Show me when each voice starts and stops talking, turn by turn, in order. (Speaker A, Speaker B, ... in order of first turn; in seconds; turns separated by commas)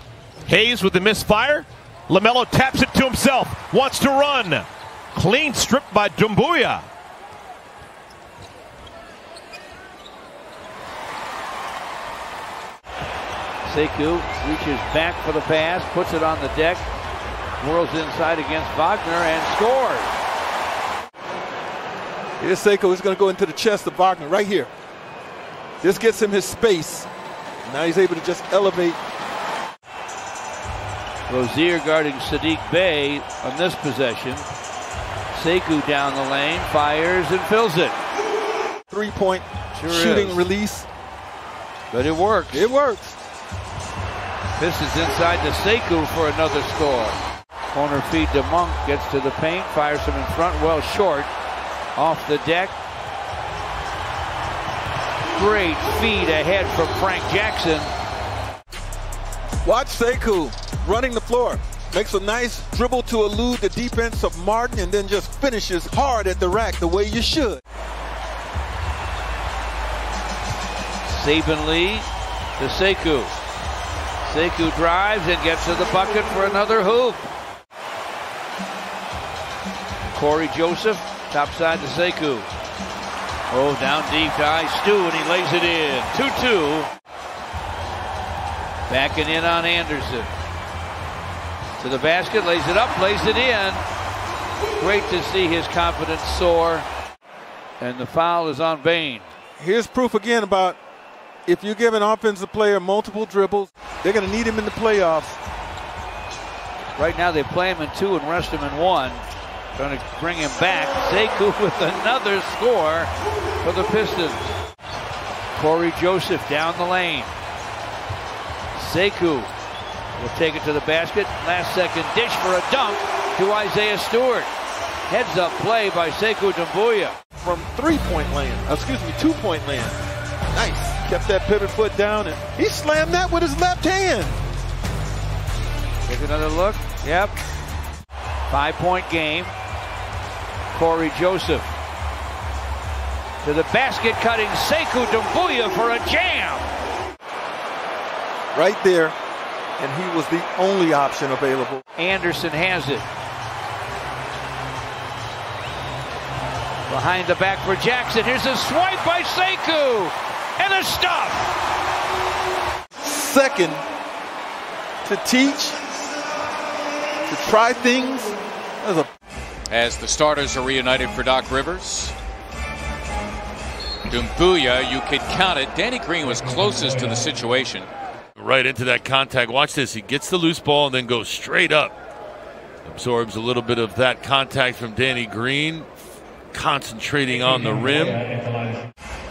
Speaker A: 0.5-6.8, Speaker B: 13.6-16.9, Speaker B: 17.6-20.1, Speaker C: 22.4-24.7, Speaker C: 25.8-27.1, Speaker C: 27.6-29.0, Speaker B: 31.3-34.5, Speaker B: 35.3-38.0, Speaker C: 38.9-40.9, Speaker B: 39.7-40.4, Speaker B: 41.9-42.6, Speaker C: 42.5-43.1, Speaker B: 44.6-47.2, Speaker B: 47.7-51.3, Speaker B: 51.9-52.7, Speaker B: 55.3-57.9, Speaker C: 59.6-67.6, Speaker B: 71.0-73.3, Speaker B: 74.2-77.3, Speaker B: 80.1-82.5, Speaker B: 83.5-86.9, Speaker B: 88.9-90.3, Speaker B: 91.8-93.8, Speaker B: 94.8-96.9, Speaker B: 97.8-99.3, Speaker C: 99.6-100.8, Speaker C: 101.5-105.4, Speaker B: 107.0-113.1, Speaker B: 113.6-114.5, Speaker B: 115.5-117.3, Speaker B: 118.7-119.5, Speaker B: 120.2-124.5, Speaker B: 125.1-127.2, Speaker C: 127.4-130.0, Speaker C: 130.5-134.4, Speaker B: 136.1-137.4, Speaker B: 138.5-139.5, Speaker B: 140.7-141.7, Speaker B: 143.4-146.7, Speaker C: 148.5-149.1, Speaker C: 149.8-151.8, Speaker B: 152.0-153.1, Speaker B: 156.9-161.5, Speaker C: 163.0-163.8, Speaker C: 165.0-165.8, Speaker C: 167.3-169.1, Speaker D: 169.7-172.1, Speaker D: 174.1-177.9, Speaker E: 178.4-181.9, Speaker E: 182.9-185.8, Speaker E: 186.5-188.2